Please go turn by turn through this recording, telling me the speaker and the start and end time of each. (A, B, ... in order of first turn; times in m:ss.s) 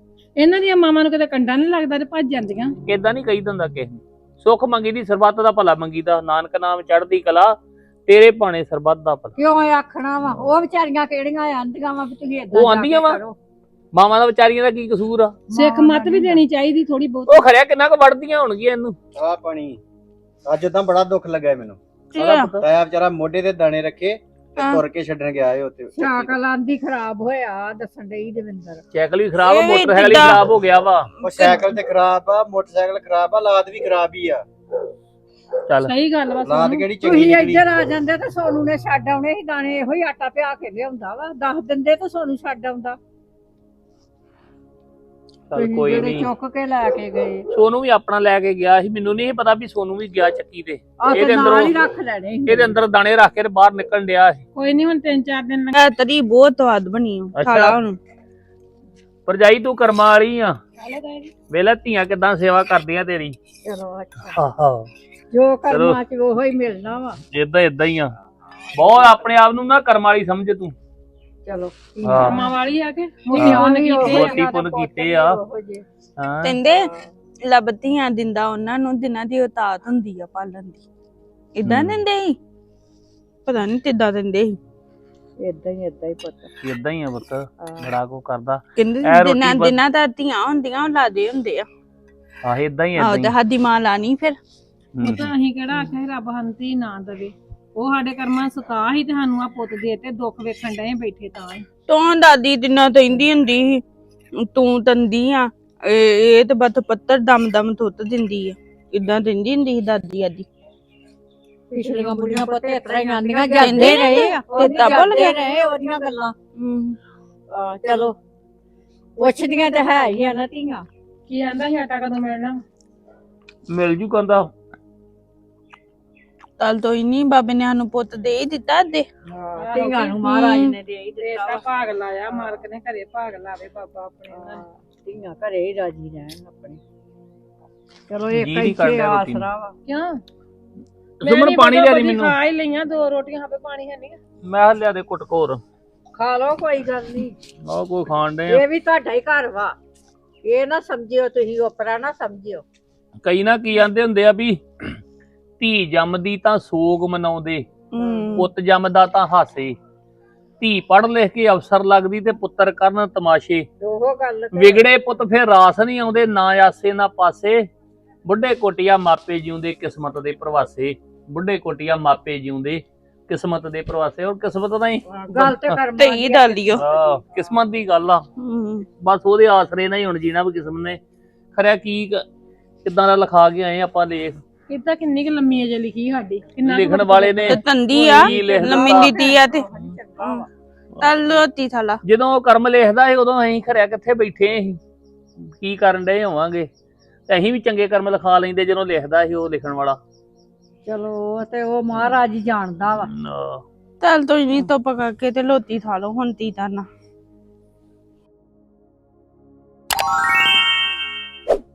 0:00.4-0:02.8 A
0:02.9-0:09.3 B
0:09.4-0:13.4 C
0:12.5-0:13.2 B
0:13.9-0:15.4 B
0:15.5-0:16.4 C
0:15.5-0:17.4 A
0:17.3-0:19.0 B
0:19.2-0:19.8 D
0:20.4-0:21.8 D
0:22.1-0:22.5 E
0:22.2-0:22.6 B
0:22.6-0:26.3 D
0:24.6-0:24.8 E
0:26.0-0:28.8 C
0:28.9-0:31.1 B
0:29.4-0:30.4 E
0:31.2-0:34.4 D
0:35.8-0:36.9 A
0:36.4-0:37.7 D
0:37.0-0:43.0 C
0:45.5-0:46.3 B
0:45.6-0:47.5 C
0:47.5-0:51.8 B
0:51.0-0:52.8 C
0:52.5-0:54.4 B
0:54.6-0:55.8 A
0:55.8-0:58.0 E
0:57.4-0:57.8 B
0:59.3-1:00.6 B
1:00.8-1:01.3 A
1:01.5-1:03.4 B
1:03.6-1:04.4 C
1:04.3-1:04.9 B
1:05.3-1:07.2 C
1:05.7-1:06.0 B
1:07.3-1:08.2 B
1:08.7-1:10.7 B
1:08.8-1:09.2 C
1:11.5-1:12.5 C
1:12.0-1:12.5 B
1:12.2-1:14.5 A
1:13.3-1:15.8 C
1:13.4-1:15.4 B
1:16.2-1:16.6 B
1:16.4-1:16.9 E
1:16.7-1:17.1 C
1:17.5-1:20.8 E
1:21.6-1:22.4 E
1:21.7-1:22.0 B
1:23.5-1:24.6 E
1:25.4-1:26.5 C
1:26.6-1:29.8 B
1:27.6-1:28.0 C
1:28.8-1:31.7 E
1:32.4-1:33.4 B
1:33.0-1:34.4 E
1:35.0-1:35.3 B
1:35.0-1:41.6 A
1:41.9-1:43.8 E
1:44.4-1:50.5 E
1:51.7-1:56.4 C
1:51.9-1:52.3 A
1:52.9-1:55.1 A
1:53.5-1:55.4 E
1:56.6-1:57.0 E
1:57.5-1:58.2 C
1:59.2-2:00.9 C
2:01.3-2:02.6 A
2:03.7-2:04.5 B
2:06.6-2:09.1 E
2:09.3-2:10.8 C
2:09.6-2:14.6 A
2:11.3-2:11.6 E
2:14.3-2:16.8 C
2:18.1-2:19.7 C
2:18.3-2:19.5 B
2:19.9-2:20.2 A
2:21.2-2:22.4 B
2:21.2-2:24.2 A
2:24.4-2:25.6 B
2:26.1-2:27.4 C
2:27.6-2:28.6 B
2:28.5-2:29.8 C
2:30.4-2:32.6 C
2:33.2-2:35.0 B
2:35.6-2:37.7 B
2:37.9-2:38.5 E
2:38.0-2:38.4 C
2:38.4-2:39.8 B
2:40.6-2:43.7 B
2:43.8-2:44.9 C
2:44.5-2:47.7 B
2:48.2-2:55.8 B
2:55.1-2:56.8 C
2:56.0-2:56.8 E
2:56.8-2:58.3 B
2:58.4-2:58.9 E
2:59.0-3:01.0 B
3:01.5-3:02.2 B
3:02.8-3:04.4 B
3:04.7-3:07.7 A
3:06.6-3:09.2 B
3:07.5-3:09.7 E
3:08.4-3:08.8 A
3:08.4-3:10.5 C
3:10.2-3:10.5 E
3:11.0-3:12.0 E
3:12.0-3:14.8 B
3:15.4-3:16.7 B
3:17.3-3:20.0 B
3:20.9-3:23.1 C
3:22.9-3:23.6 B
3:24.0-3:26.9 E